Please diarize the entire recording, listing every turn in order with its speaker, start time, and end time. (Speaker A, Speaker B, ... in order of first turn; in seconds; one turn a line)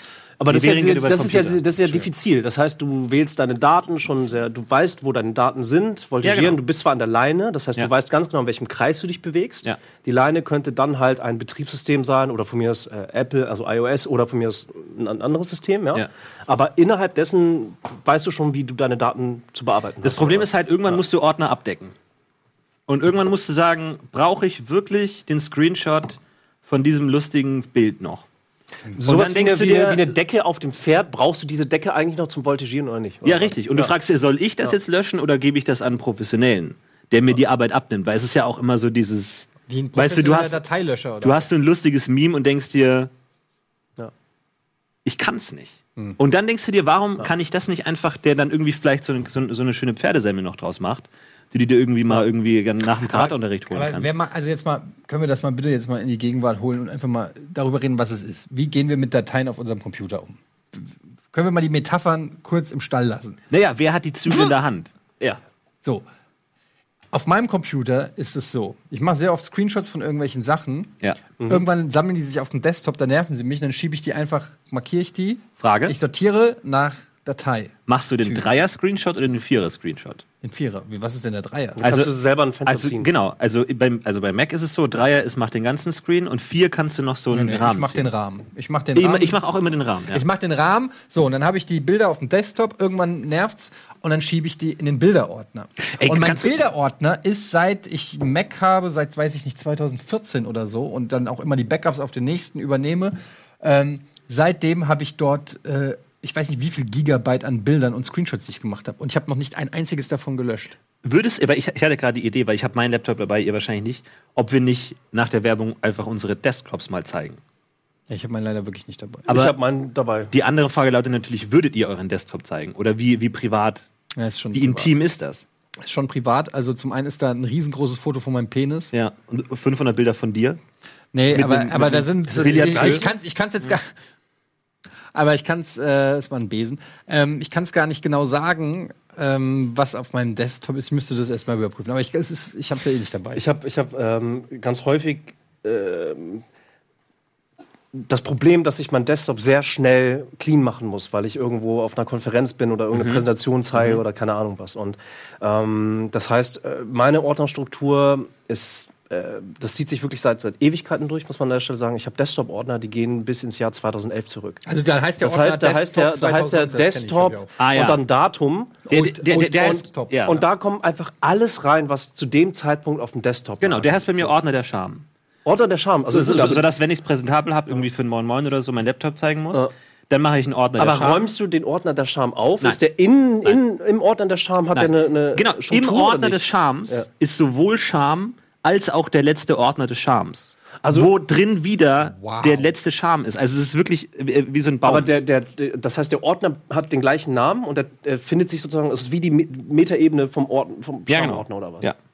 Speaker A: 0.4-21.0
Speaker B: 0.5-2.0
Speaker B: 6.2-6.6
Speaker B: 20.0-21.9
Speaker B: 22.9-28.2
Speaker A: 28.9-33.9
Speaker B: 29.1-30.1
Speaker B: 33.2-40.6
Speaker C: 39.7-41.5
Speaker B: 41.2-43.1
Speaker B: 45.0-54.1
Speaker C: 53.0-63.4
Speaker B: 63.5-65.4
Speaker C: 67.1-78.5
Speaker B: 75.6-75.9
Speaker B: 77.9-80.2
Speaker C: 80.4-81.9
Speaker A: 81.8-83.1
Speaker B: 81.8-82.1
Speaker B: 82.7-88.1
Speaker C: 87.3-89.4
Speaker B: 88.9-90.2
Speaker C: 90.1-110.8
Speaker B: 95.9-96.5
Speaker B: 111.0-117.4
Speaker C: 118.1-119.3
Speaker A: 119.3-120.3
Speaker B: 119.3-119.5
Speaker B: 120.3-123.9
Speaker C: 124.2-124.9
Speaker B: 124.5-125.4
Speaker C: 125.8-128.9
Speaker B: 128.9-130.6
Speaker C: 131.1-133.9
Speaker B: 131.3-133.1
Speaker A: 132.3-133.1
Speaker C: 135.1-143.4
Speaker A: 143.3-146.4
Speaker A: 147.9-164.6
Speaker B: 152.9-153.2
Speaker B: 153.7-154.0
Speaker C: 164.6-167.5
Speaker A: 165.2-174.3
Speaker B: 167.6-168.0
Speaker C: 168.9-170.2
Speaker B: 168.9-170.4
Speaker B: 173.6-175.0
Speaker A: 175.4-176.7
Speaker B: 176.1-181.3
Speaker A: 180.8-187.1
Speaker B: 184.7-195.1
Speaker A: 190.8-191.1
Speaker C: 192.1-192.7
Speaker A: 194.8-201.9
Speaker B: 201.1-201.9